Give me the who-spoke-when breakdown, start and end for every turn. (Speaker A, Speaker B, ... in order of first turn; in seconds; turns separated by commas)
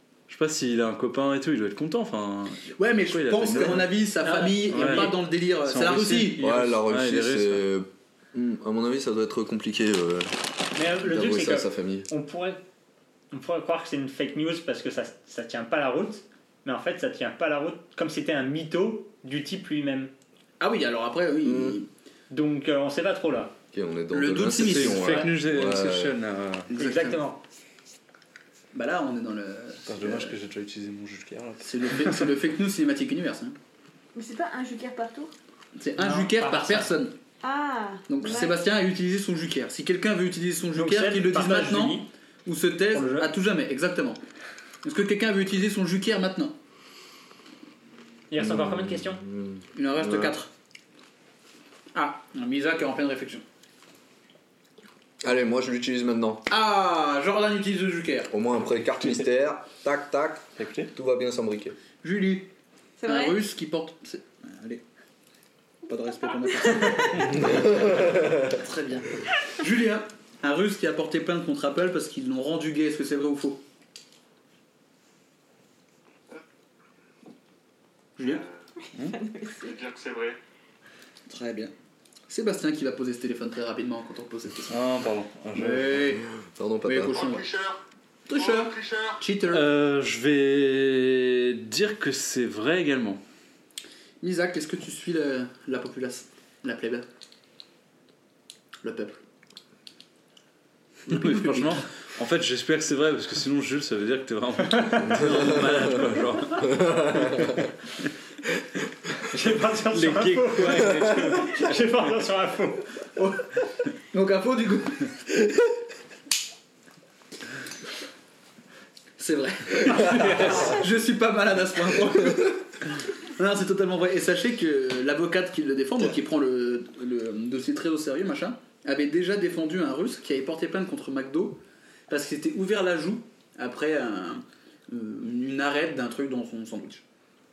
Speaker A: 0.3-3.9, Speaker B: 2.8-6.4, Speaker C: 4.2-5.2, Speaker A: 4.7-7.6, Speaker D: 6.4-12.1, Speaker C: 10.8-12.6, Speaker C: 13.3-20.1, Speaker B: 20.6-21.9, Speaker D: 21.4-21.8, Speaker C: 22.3-23.6, Speaker D: 23.7-26.2, Speaker B: 24.1-25.3, Speaker A: 24.4-26.7, Speaker B: 26.7-27.2, Speaker C: 26.8-27.4, Speaker B: 28.7-30.3, Speaker A: 29.9-32.3, Speaker B: 31.6-33.6, Speaker E: 34.1-35.3, Speaker B: 35.8-37.1, Speaker C: 36.0-36.9, Speaker E: 37.4-38.6, Speaker B: 38.1-44.2, Speaker C: 40.7-42.1, Speaker C: 42.9-43.3, Speaker B: 44.8-46.5, Speaker C: 48.3-49.2, Speaker D: 48.4-50.4, Speaker B: 49.8-50.5, Speaker B: 51.9-53.4, Speaker D: 55.2-56.4, Speaker B: 56.5-58.3, Speaker D: 58.3-61.8, Speaker A: 60.6-60.9, Speaker B: 62.0-62.5, Speaker E: 63.0-63.4, Speaker B: 63.1-64.8, Speaker B: 65.9-73.6, Speaker D: 67.4-68.5, Speaker B: 78.2-78.4, Speaker F: 78.2-78.6, Speaker E: 79.0-79.7, Speaker F: 79.5-80.4, Speaker B: 81.3-81.7, Speaker B: 82.3-84.8, Speaker A: 84.7-86.1, Speaker B: 85.5-86.2, Speaker D: 86.4-87.2, Speaker B: 86.8-87.5, Speaker F: 87.0-89.2, Speaker B: 88.3-89.7, Speaker A: 89.5-93.2, Speaker B: 94.2-97.1, Speaker B: 98.8-99.2, Speaker B: 101.1-101.8, Speaker A: 101.1-107.5, Speaker C: 104.8-105.2, Speaker D: 106.7-107.5, Speaker C: 109.3-112.9, Speaker A: 109.9-111.7, Speaker B: 113.2-113.4, Speaker B: 114.1-115.1, Speaker B: 119.2-122.7, Speaker C: 120.0-120.7, Speaker B: 123.3-137.0